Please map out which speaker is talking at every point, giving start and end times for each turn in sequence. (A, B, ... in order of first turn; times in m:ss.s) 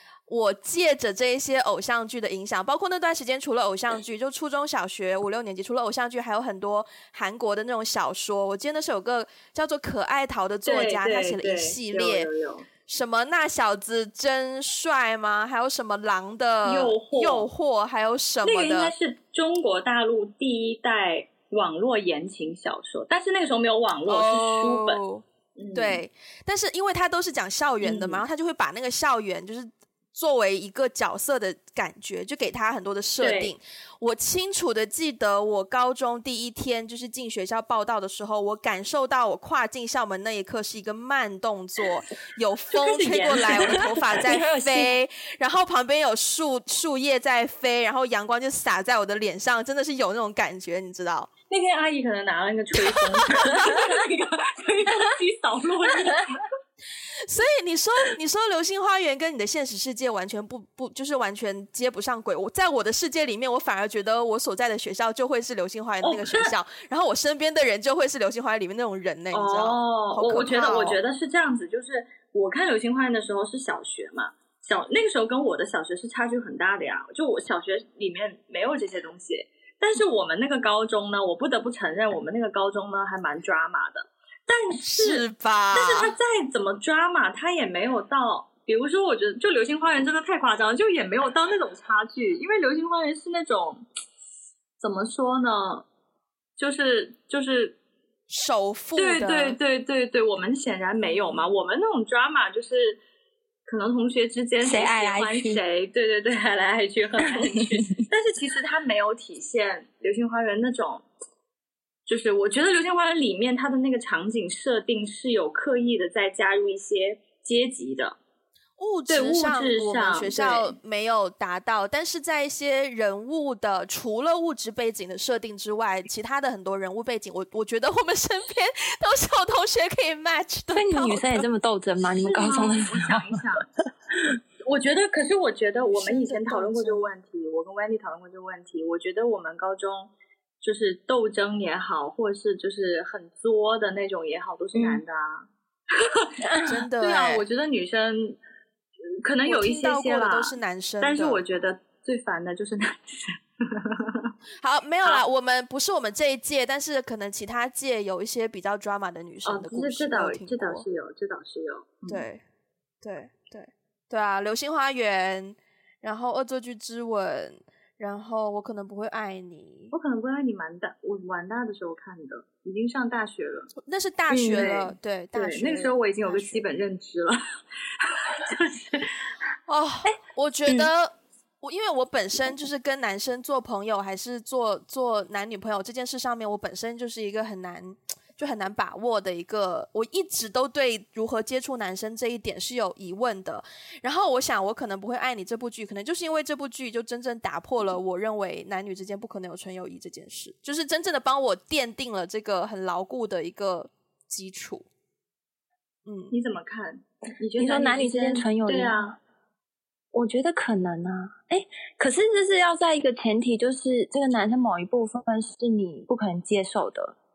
0:00.3-0:12.3 A
0:10.6-0:12.7 B
0:12.8-0:18.9 A
0:16.6-0:17.5 B
0:18.4-0:25.0 B
0:24.1-0:51.3 A
0:25.6-0:26.0 B
0:27.8-0:28.2 B
0:33.2-0:33.5 B
0:42.7-0:44.0 B
0:44.1-0:44.9 C
0:51.5-0:56.4 B
0:52.8-0:53.8 A
0:57.2-1:11.0 A
1:06.0-1:06.5 B
1:09.3-1:33.8 B
1:24.8-1:26.1 A
1:34.8-1:35.9 B
1:36.6-1:37.8 B
1:38.3-1:39.6 A
1:39.0-1:43.0 B
1:43.7-1:51.0 B
1:44.6-1:45.6 C
1:52.0-1:58.2 B
1:58.8-2:11.5 A
1:59.1-2:00.8 B
2:10.7-2:13.4 C
2:12.1-2:13.7 B
2:14.6-2:28.4 B
2:15.8-2:17.1 A
2:24.7-2:25.0 C
2:26.5-2:26.7 C
2:26.6-2:27.4 A
2:29.2-2:34.3 B
2:29.4-2:31.4 A
2:34.6-2:40.8 A
2:39.4-2:42.2 B
2:42.1-2:42.4 A
2:43.0-2:49.9 A
2:49.9-2:53.7 B
2:53.8-2:56.7 A
2:54.3-2:57.4 B
2:58.0-2:59.2 B
2:59.7-3:24.8 A
3:00.6-3:00.9 C
3:26.0-3:26.3 A
3:26.3-3:29.2 B
3:27.6-3:29.1 C
3:30.1-3:37.2 C